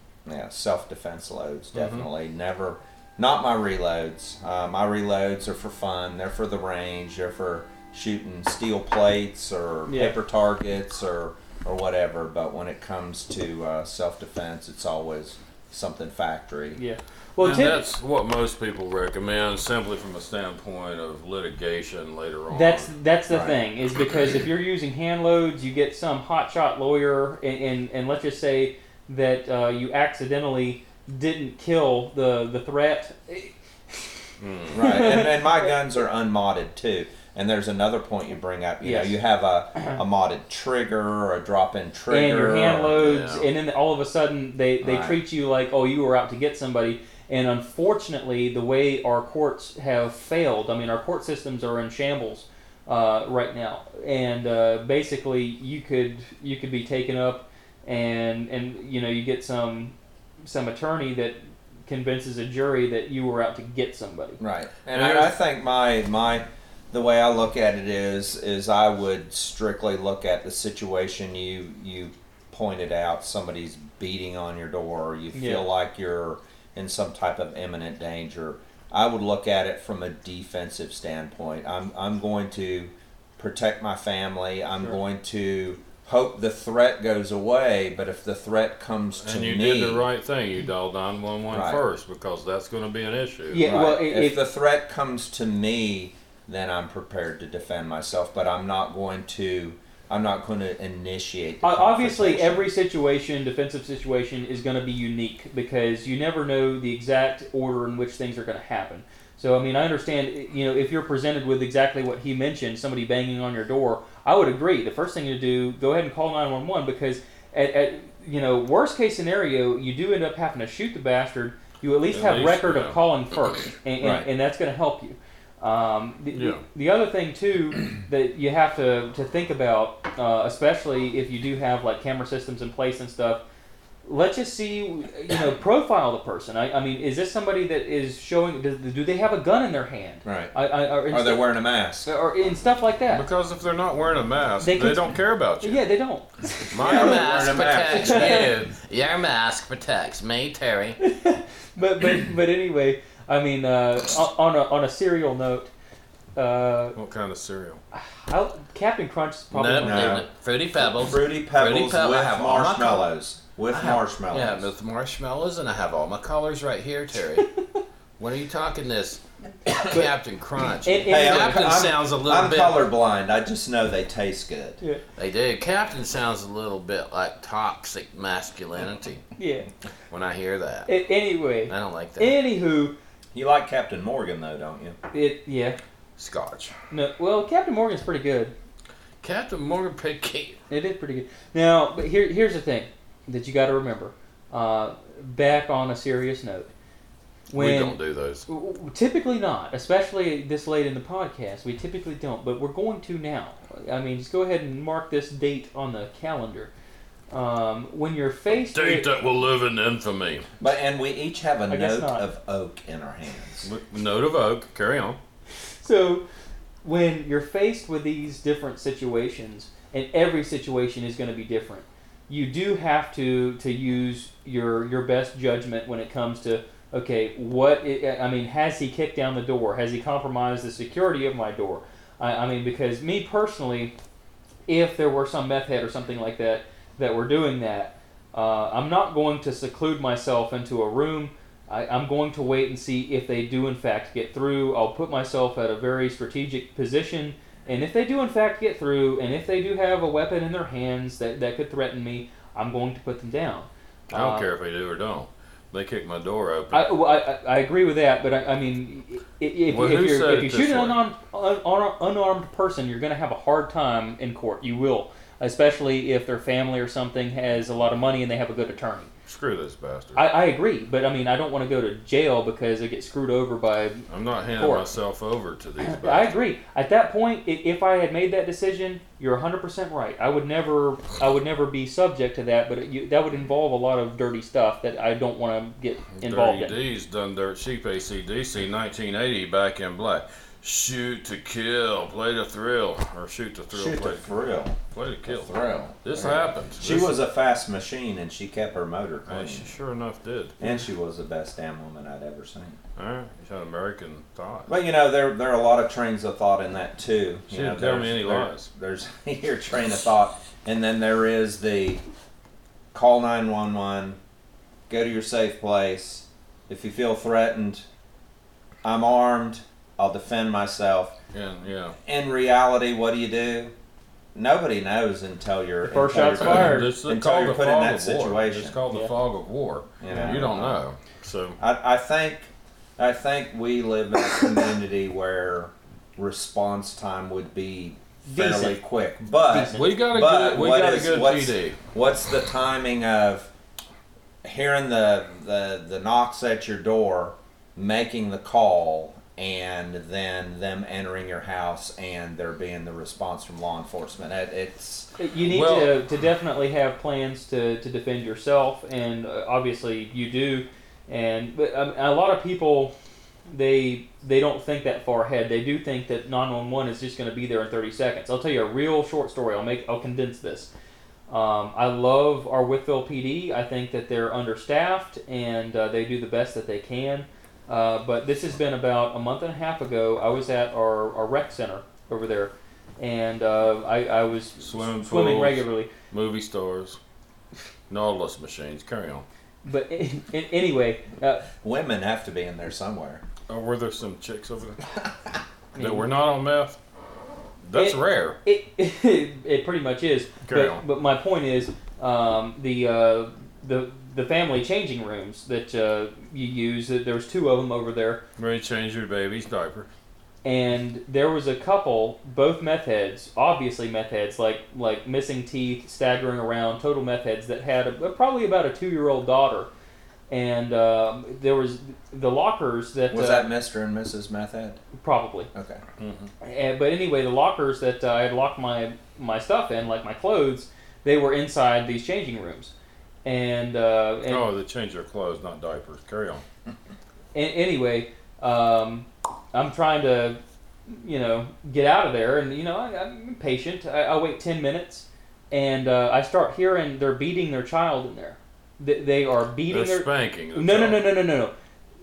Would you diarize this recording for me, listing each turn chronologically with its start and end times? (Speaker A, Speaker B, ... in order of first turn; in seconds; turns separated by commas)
Speaker A: 0.3-16.8, Speaker B: 1.7-2.1, Speaker C: 9.9-10.2, Speaker C: 16.8-17.8, Speaker B: 17.4-22.9, Speaker C: 22.5-34.2, Speaker A: 23.3-23.6, Speaker B: 34.4-35.1, Speaker A: 34.7-43.0, Speaker C: 34.8-35.7, Speaker C: 38.8-39.2, Speaker C: 42.1-64.4, Speaker B: 42.9-43.5, Speaker A: 44.8-45.2, Speaker A: 64.4-90.1, Speaker B: 64.9-65.3, Speaker C: 75.3-75.7, Speaker B: 89.2-93.8, Speaker A: 91.5-91.8, Speaker C: 93.5-94.4, Speaker A: 93.6-102.7, Speaker C: 101.6-133.4, Speaker B: 122.1-123.0, Speaker A: 124.0-124.3, Speaker B: 126.3-126.6, Speaker C: 134.0-143.2, Speaker A: 140.2-142.1, Speaker B: 143.1-145.9, Speaker C: 144.6-148.5, Speaker D: 146.7-151.0, Speaker A: 146.8-148.5, Speaker C: 151.0-155.7, Speaker C: 156.4-157.0, Speaker B: 156.9-157.8, Speaker C: 157.9-160.2, Speaker D: 159.5-163.1, Speaker A: 159.8-164.7, Speaker D: 163.7-167.5, Speaker D: 168.2-172.8, Speaker C: 170.8-171.8, Speaker A: 171.1-174.8, Speaker D: 175.2-179.2, Speaker C: 179.4-179.7, Speaker D: 180.1-180.9, Speaker C: 180.9-183.0, Speaker D: 181.7-182.4, Speaker A: 183.3-185.0, Speaker C: 185.1-185.8, Speaker B: 186.2-186.7, Speaker C: 186.9-188.5, Speaker D: 189.2-190.6, Speaker C: 190.7-196.7, Speaker C: 197.5-206.7, Speaker B: 197.5-198.5, Speaker C: 207.3-209.1, Speaker B: 208.5-210.5, Speaker A: 210.6-213.7, Speaker C: 211.7-212.3, Speaker B: 213.6-215.2, Speaker C: 215.8-216.2, Speaker C: 216.8-233.9, Speaker C: 234.7-254.5, Speaker B: 254.1-256.9, Speaker C: 256.7-269.1, Speaker B: 259.7-261.0, Speaker B: 269.3-270.2, Speaker C: 270.1-274.9, Speaker B: 274.1-276.4, Speaker C: 275.8-286.8, Speaker B: 286.2-294.4, Speaker A: 293.7-299.7, Speaker B: 294.9-297.2, Speaker B: 299.3-300.6, Speaker A: 300.6-302.8, Speaker B: 303.0-304.8, Speaker A: 304.7-312.0, Speaker B: 307.5-308.7, Speaker A: 312.9-314.2, Speaker A: 314.9-317.9, Speaker A: 318.8-321.2, Speaker B: 321.3-322.0, Speaker A: 322.1-323.7, Speaker A: 324.4-328.8, Speaker C: 325.8-326.9, Speaker B: 326.4-331.6, Speaker A: 330.0-330.8, Speaker A: 331.6-343.5, Speaker C: 338.3-338.8, Speaker C: 339.4-339.9, Speaker B: 339.6-341.8, Speaker A: 344.4-355.1, Speaker C: 355.2-362.9, Speaker B: 355.5-355.9, Speaker C: 363.5-370.7, Speaker C: 371.3-385.9, Speaker B: 384.6-387.0, Speaker B: 387.9-389.3, Speaker C: 389.6-391.5, Speaker A: 391.5-393.2, Speaker B: 393.5-394.9, Speaker C: 395.7-396.1, Speaker B: 395.8-396.8, Speaker B: 397.6-398.4, Speaker C: 397.7-408.2, Speaker B: 400.5-400.8, Speaker B: 408.4-409.9, Speaker C: 410.4-419.7, Speaker C: 420.3-423.5, Speaker A: 423.1-424.8, Speaker C: 425.0-425.5, Speaker A: 425.5-425.8, Speaker B: 426.0-426.3, Speaker C: 426.4-432.7, Speaker C: 433.2-434.5, Speaker B: 434.3-436.4, Speaker C: 437.3-451.5, Speaker B: 449.7-451.1